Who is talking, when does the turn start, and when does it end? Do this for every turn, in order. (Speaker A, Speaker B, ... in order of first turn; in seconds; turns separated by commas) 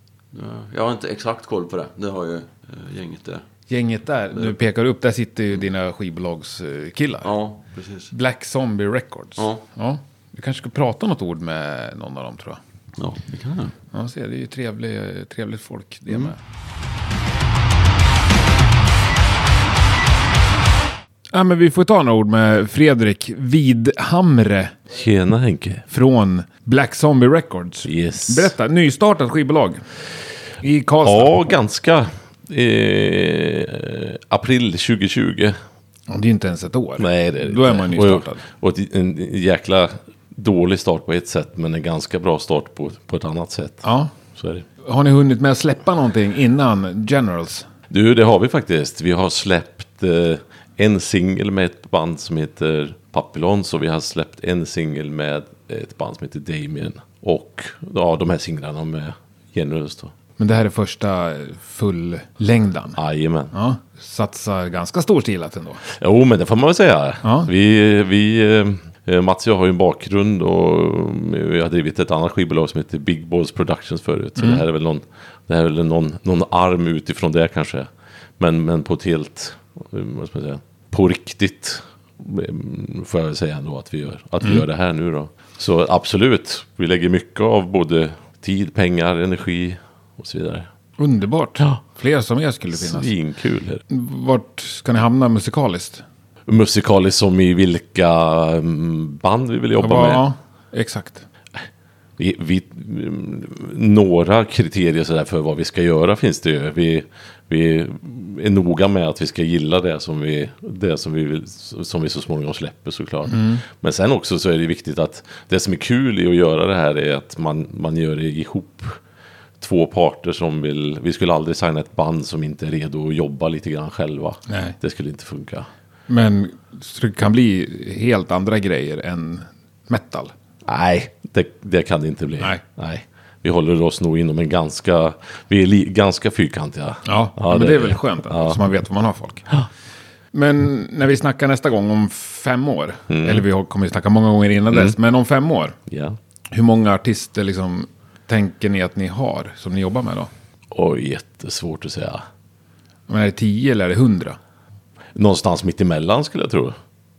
Speaker A: 0.3-3.5, Speaker B: 3.7-7.3, Speaker A: 7.2-8.1, Speaker B: 8.1-12.6, Speaker A: 9.4-9.6, Speaker A: 13.0-13.7, Speaker B: 13.9-16.4, Speaker B: 21.3-24.8, Speaker C: 24.9-25.9, Speaker B: 25.9-29.9, Speaker C: 27.9-28.5, Speaker B: 30.6-31.4, Speaker C: 31.0-35.6, Speaker B: 36.1-38.4, Speaker C: 37.0-44.7, Speaker B: 43.8-44.1, Speaker B: 44.8-47.7, Speaker C: 47.9-60.1, Speaker B: 60.4-63.0, Speaker C: 63.0-63.5, Speaker B: 63.5-65.8, Speaker C: 65.9-90.7, Speaker B: 67.2-67.5, Speaker B: 74.4-74.6, Speaker B: 91.0-93.1, Speaker C: 92.7-93.8, Speaker B: 93.9-96.0, Speaker C: 96.5-100.3, Speaker B: 99.8-101.2, Speaker C: 102.2-119.0, Speaker B: 113.3-113.6, Speaker C: 119.6-125.7, Speaker B: 124.5-124.8, Speaker B: 126.1-130.3, Speaker C: 130.7-138.6, Speaker B: 137.1-139.5, Speaker B: 140.3-145.8, Speaker C: 143.1-143.4, Speaker C: 145.9-146.2, Speaker B: 146.5-150.3, Speaker C: 150.7-152.2, Speaker B: 153.1-154.4, Speaker C: 155.2-156.8